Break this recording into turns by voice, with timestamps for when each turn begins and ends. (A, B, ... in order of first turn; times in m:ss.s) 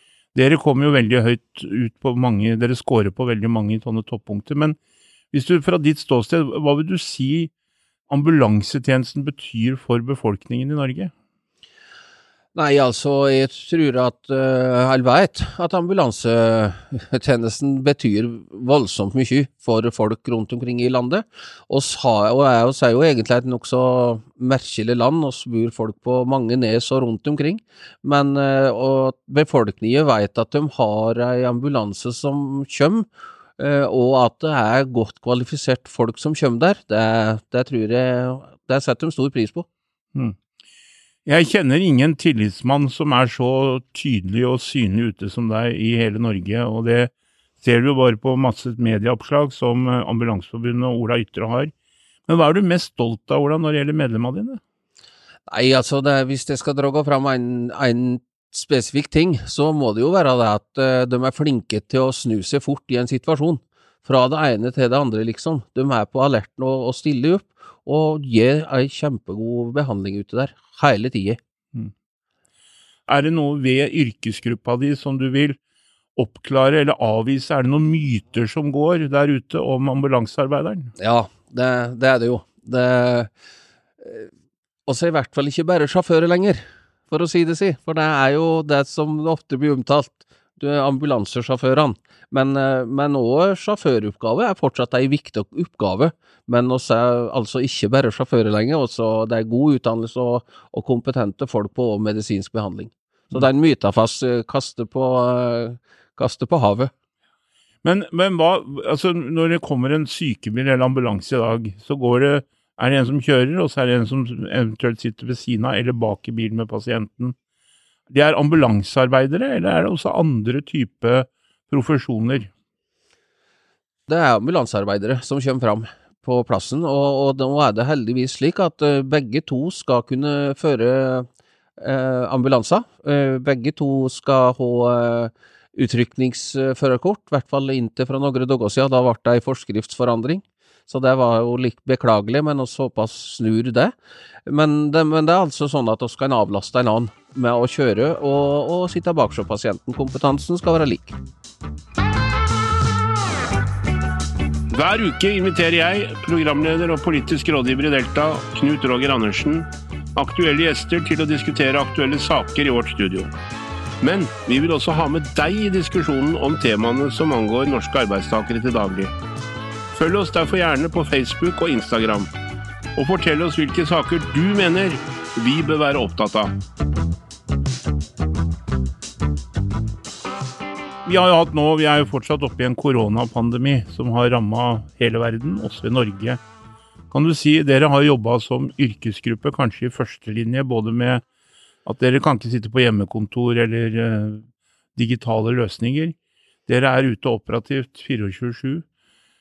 0:00.3-0:04.8 A
0:05.3-0:07.5 A
0:08.1-0:11.1 A
0:12.5-0:33.0 B
0:33.6-0:39.7 B
0:41.2-0:51.7 A
0:52.3-0:54.6 A
0:55.5-1:11.4 B
1:13.1-1:15.6 A
1:16.2-1:20.9 A
1:21.0-1:23.3 B
1:24.0-1:24.3 B
1:24.9-1:46.9 B
1:47.8-1:57.3 A
1:58.1-2:02.5 A
2:04.1-2:11.3 B
2:11.8-2:23.9 B
2:24.4-2:31.2 B
2:34.7-2:43.3 C
2:44.0-2:49.1 C
2:49.9-2:52.3 C
2:53.0-2:56.5 C
3:01.0-3:06.4 A
3:07.1-3:11.2 A
3:11.8-3:14.4 A
3:15.0-3:16.2 A
3:16.7-3:18.8 A